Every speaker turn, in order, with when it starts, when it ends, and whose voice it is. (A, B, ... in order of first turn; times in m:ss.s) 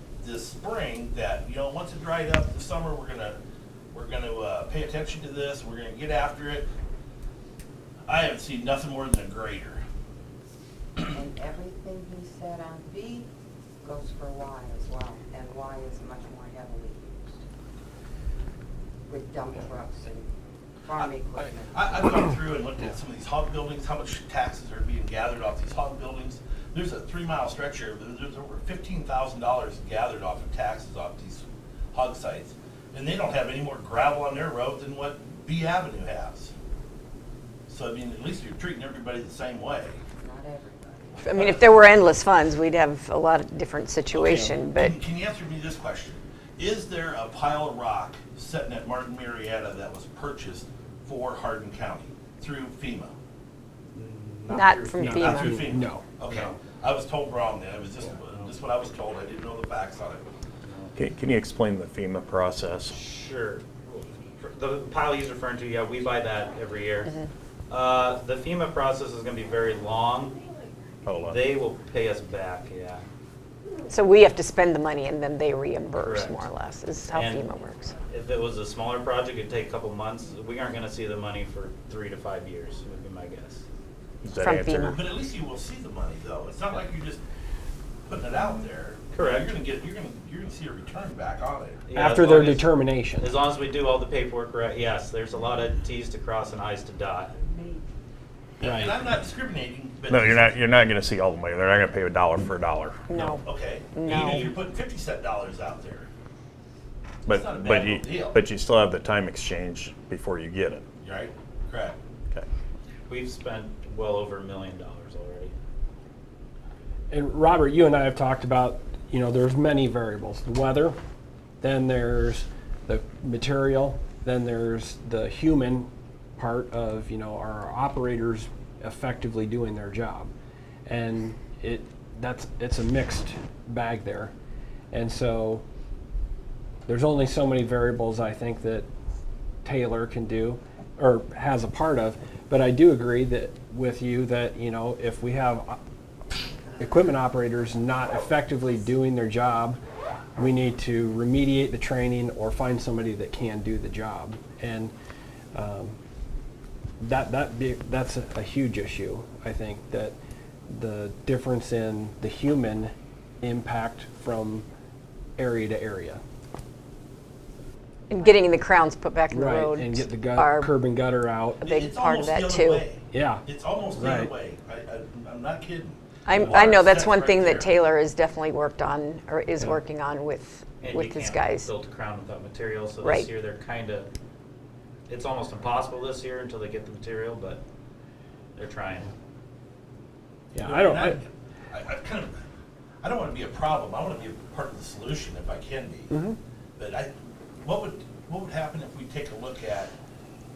0:00.2-0:03.4 A
0:03.9-0:06.7 A
0:08.1-0:09.8 A
0:11.0-0:13.3 B
0:13.8-0:17.5 B
0:19.1-0:20.3 B
0:20.8-0:22.4 B
0:20.9-0:36.5 A
0:37.7-0:40.0 A
0:40.2-0:41.6 B
0:41.2-0:45.0 C
0:41.3-0:41.8 A
0:44.1-0:53.1 A
0:53.9-0:55.5 D
0:54.5-0:55.5 C
0:55.0-1:00.3 A
0:55.0-0:56.0 E
0:56.3-0:56.6 D
1:00.6-1:00.9 D
1:01.0-1:02.9 F
1:02.9-1:07.1 D
1:07.7-1:10.4 D
1:11.1-1:11.3 F
1:11.2-1:13.0 D
1:13.9-1:18.0 C
1:16.0-1:16.5 D
1:17.1-1:17.5 D
1:18.1-1:23.6 D
1:24.2-1:24.9 F
1:24.4-1:25.0 C
1:24.8-1:27.2 A
1:28.1-1:31.8 A
1:29.1-1:29.5 D
1:31.9-1:37.3 D
1:32.0-1:33.3 E
1:37.4-1:37.8 B
1:38.6-1:40.6 A
1:40.1-1:43.1 F
1:43.1-1:46.1 A
1:43.1-1:44.5 C
1:47.3-1:50.8 F
1:47.3-1:48.4 A
1:51.0-1:52.0 A
1:53.1-1:55.5 D
1:57.1-2:01.0 E
2:01.6-2:10.3 E
2:10.8-2:14.3 E
2:14.9-2:15.6 E
2:16.9-2:18.9 E
2:19.6-2:25.8 E
2:26.8-2:29.8 E
2:30.4-2:34.9 E
2:35.5-2:36.0 E
2:37.0-2:40.2 E
2:40.7-2:44.7 E
2:45.4-2:46.2 E
2:48.1-2:50.7 C
2:49.3-2:51.6 E
2:49.4-2:49.9 B
2:51.6-2:57.8 A
2:51.7-2:52.8 C
2:53.1-2:53.4 E
2:54.0-2:54.3 E
2:56.3-3:01.7 C
3:00.8-3:04.1 D
3:05.1-3:07.6 D
3:08.6-3:09.1 D
3:10.5-3:11.2 E
3:10.6-3:12.4 A
3:13.0-3:16.2 A
3:16.1-3:16.4 E
3:16.8-3:19.9 A